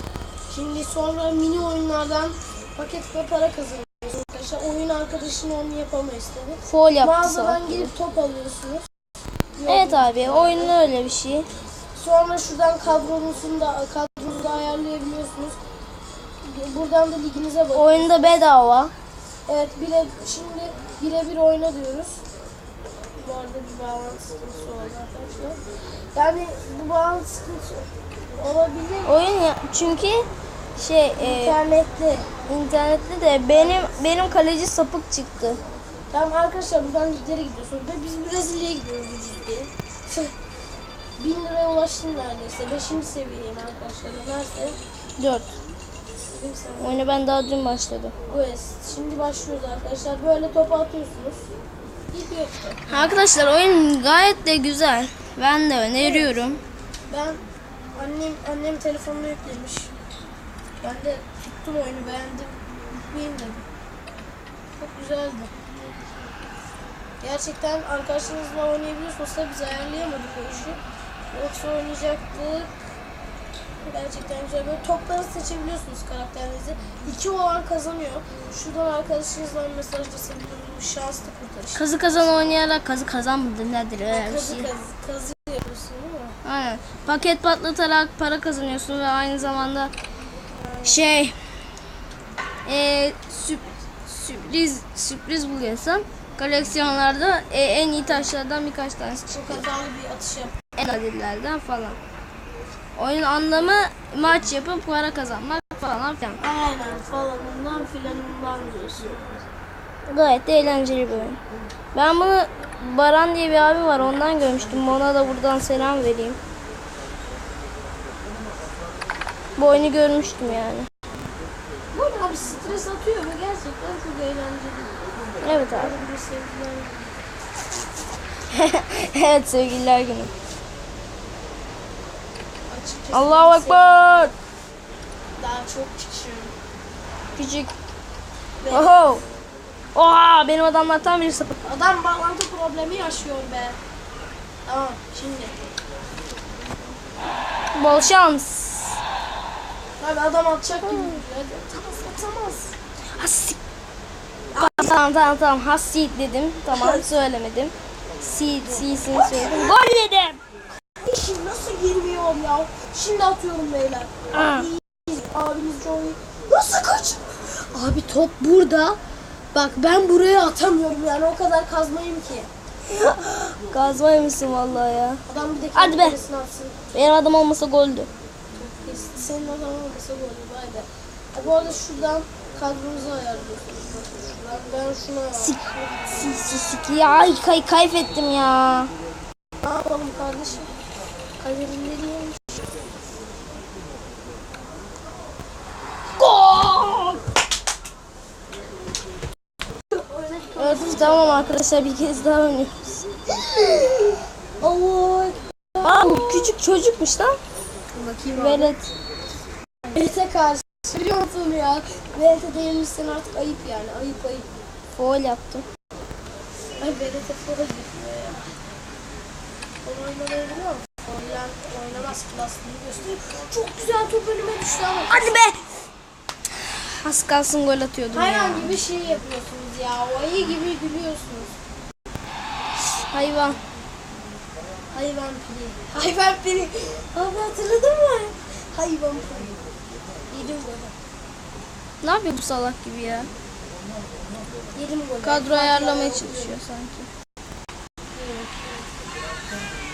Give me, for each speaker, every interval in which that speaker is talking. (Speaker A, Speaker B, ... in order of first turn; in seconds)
Speaker A: 0.5-8.8, 9.6-10.8, 12.0-15.6, 16.4-18.3, 19.5-22.2, 23.2-25.6, 26.1-29.1, 31.2-32.3, 33.5-34.1, 36.1-40.3, 41.2-44.8, 46.4-47.1, 48.3-51.4, 52.1-53.1, 56.0-56.4, 57.1-57.4, 58.0-59.9, 60.8-63.6, 64.8-65.5, 67.2-70.8, 71.3-72.7, 73.9-81.8, 84.1-86.4, 90.6-91.0, 99.3-100.5, 106.4-109.3, 121.9-127.2, 132.7-134.3, 135.4-136.5, 138.6-139.2, 141.6-143.8, 144.7-145.5, 150.0-152.8, 156.7-157.0, 158.7-159.7, 161.0-169.0, 169.5-172.5, 175.3-176.8, 178.6-186.0, 189.6-190.7, 191.4-192.4, 196.2-197.2, 200.0-201.6, 204.6-206.5, 207.9-208.8, 209.9-214.5, 216.8-218.5, 219.8-225.3, 228.1-231.6, 234.9-239.6, 240.3-240.9, 244.8-246.6, 248.1-248.9
Speaker B: 6.7-7.9, 9.7-11.5, 17.7-18.9, 29.1-31.6, 32.5-35.6, 45.2-45.5, 46.8-48.1, 52.9-56.6, 81.8-84.7, 86.4-89.9, 90.8-91.3, 92.7-99.7, 100.8-102.0, 103.0-106.4, 110.1-111.4, 111.9-116.4, 119.6-120.9, 125.4-125.9, 128.5-130.3, 133.1-134.3, 137.4-137.7, 138.7-139.2, 139.9-141.6, 147.8-149.0, 150.8-151.2, 153.2-153.6, 154.6-160.4, 164.3-164.7, 172.9-175.2, 175.7-176.2, 176.9-178.1, 185.4-188.9, 200.6-203.1, 205.8-207.4, 208.3-208.9, 215.0-215.7, 225.1-225.6, 226.8-228.8, 232.8-233.6, 242.0-243.3, 245.2-247.1